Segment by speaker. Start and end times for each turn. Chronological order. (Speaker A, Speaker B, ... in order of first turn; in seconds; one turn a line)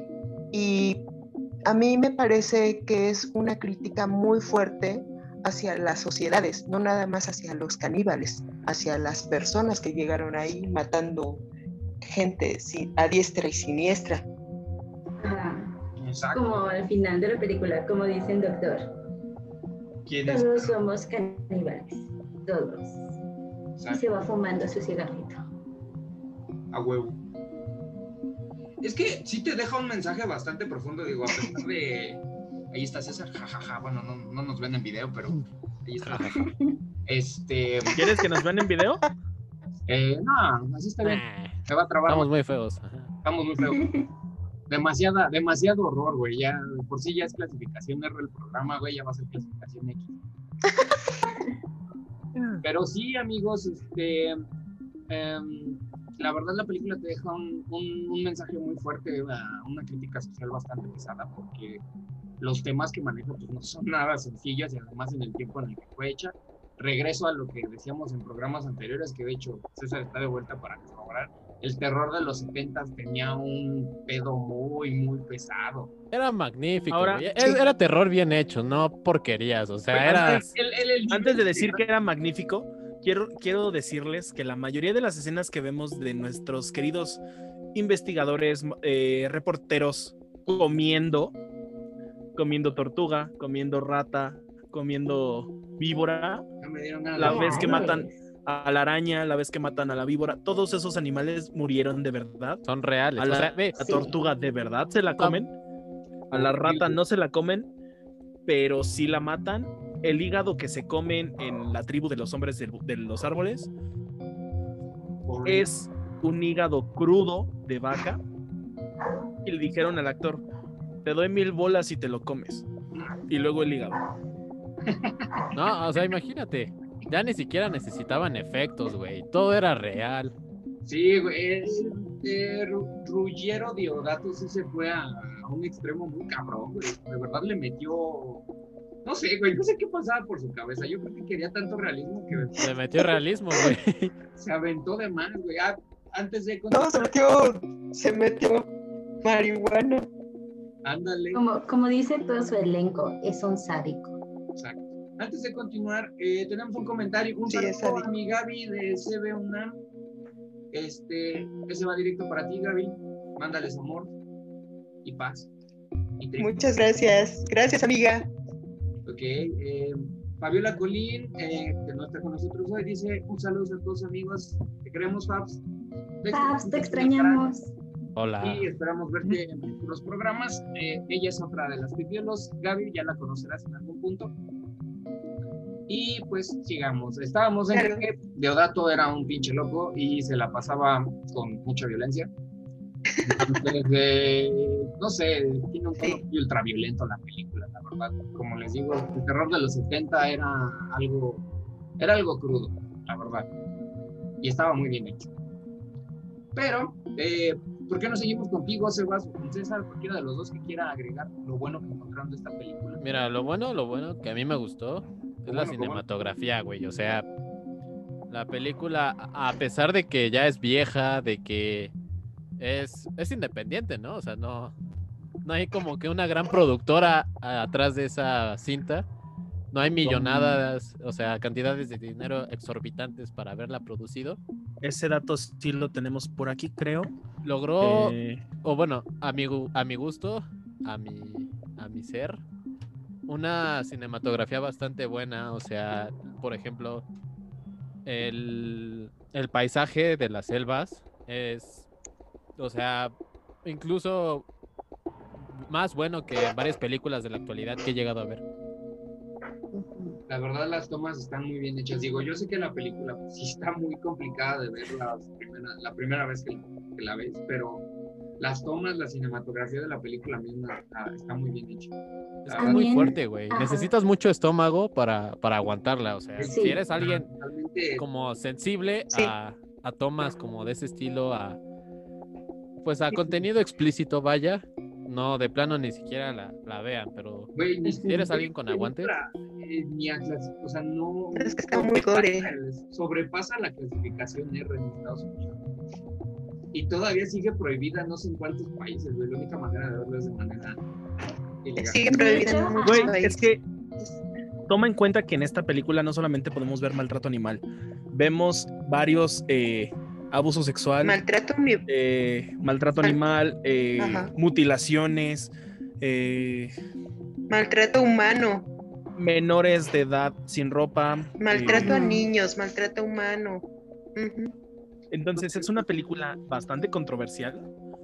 Speaker A: 0.5-1.1
Speaker A: 1.6-11.4
Speaker A: 12.0-14.2
Speaker B: 15.2-15.7
Speaker C: 16.0-16.7
Speaker B: 16.3-18.9
Speaker C: 20.1-20.8
Speaker B: 20.2-23.0
Speaker C: 23.8-24.1
Speaker B: 23.9-25.4
Speaker C: 26.7-27.2
Speaker C: 28.8-36.5
Speaker D: 36.0-36.4
Speaker B: 36.4-36.8
Speaker C: 37.0-38.0
Speaker E: 37.9-39.0
Speaker C: 39.9-42.3
Speaker D: 41.0-41.5
Speaker D: 42.1-43.1
Speaker C: 43.2-43.9
Speaker B: 43.7-44.1
Speaker C: 44.7-50.2
Speaker E: 52.4-52.6
Speaker C: 52.6-54.4
Speaker C: 55.1-61.8
Speaker C: 62.4-75.9
Speaker D: 76.1-80.5
Speaker E: 76.9-77.2
Speaker C: 79.9-81.8
Speaker E: 81.1-87.2
Speaker E: 87.7-91.3
Speaker E: 92.3-96.4
Speaker C: 96.6-97.9
Speaker E: 97.2-102.6
Speaker B: 97.2-98.2
Speaker D: 102.7-103.8
Speaker E: 103.2-105.5
Speaker B: 103.8-104.2
Speaker E: 106.3-107.7
Speaker C: 106.3-107.0
Speaker E: 108.5-113.7
Speaker C: 115.2-115.7
Speaker E: 115.4-118.2
Speaker E: 119.4-120.4
Speaker E: 121.0-122.7
Speaker E: 123.3-124.0
Speaker C: 124.9-125.5
Speaker D: 125.5-130.3
Speaker C: 130.8-138.4
Speaker C: 139.0-142.6
Speaker D: 142.5-144.1
Speaker C: 144.4-147.1
Speaker A: 146.7-148.7
Speaker A: 149.2-150.1
Speaker C: 150.8-151.4
Speaker B: 151.3-154.1
Speaker C: 154.6-159.8
Speaker A: 157.5-158.1
Speaker C: 160.7-164.1
Speaker C: 165.0-165.5
Speaker C: 166.2-166.8
Speaker A: 166.4-168.3
Speaker C: 169.1-175.6
Speaker C: 176.2-177.5
Speaker B: 176.3-177.7
Speaker D: 178.2-178.7
Speaker C: 178.4-184.3
Speaker C: 185.9-192.3
Speaker A: 187.7-188.1
Speaker C: 193.2-201.4
Speaker C: 202.0-203.5
Speaker C: 204.4-205.3
Speaker C: 206.5-213.0
Speaker D: 213.0-217.2
Speaker C: 215.5-216.0
Speaker D: 218.3-221.9
Speaker D: 222.6-224.7
Speaker D: 225.4-229.1
Speaker D: 229.7-234.4
Speaker E: 230.0-230.6
Speaker E: 234.8-237.1
Speaker D: 237.4-242.4
Speaker E: 237.7-238.4
Speaker D: 243.3-247.1
Speaker D: 248.1-251.9
Speaker D: 252.6-253.1
Speaker D: 253.6-254.4
Speaker D: 255.4-258.4
Speaker B: 259.7-260.2
Speaker C: 260.3-267.8
Speaker C: 268.4-271.9
Speaker D: 272.4-277.3
Speaker C: 272.4-272.8
Speaker B: 272.6-273.9
Speaker C: 276.4-278.0
Speaker B: 276.5-276.8
Speaker D: 278.0-281.6
Speaker D: 282.8-289.1
Speaker A: 283.1-283.4
Speaker C: 287.5-295.6
Speaker A: 291.3-292.5
Speaker C: 296.7-300.8
Speaker C: 301.6-302.4
Speaker A: 301.8-303.5
Speaker B: 302.1-303.2
Speaker E: 302.8-303.6
Speaker E: 304.7-311.2
Speaker A: 311.0-311.9
Speaker E: 311.9-316.7
Speaker A: 314.0-314.3
Speaker A: 317.5-318.7
Speaker E: 319.1-322.0
Speaker A: 321.4-324.5
Speaker B: 321.8-322.2
Speaker E: 325.1-327.6
Speaker C: 325.4-325.7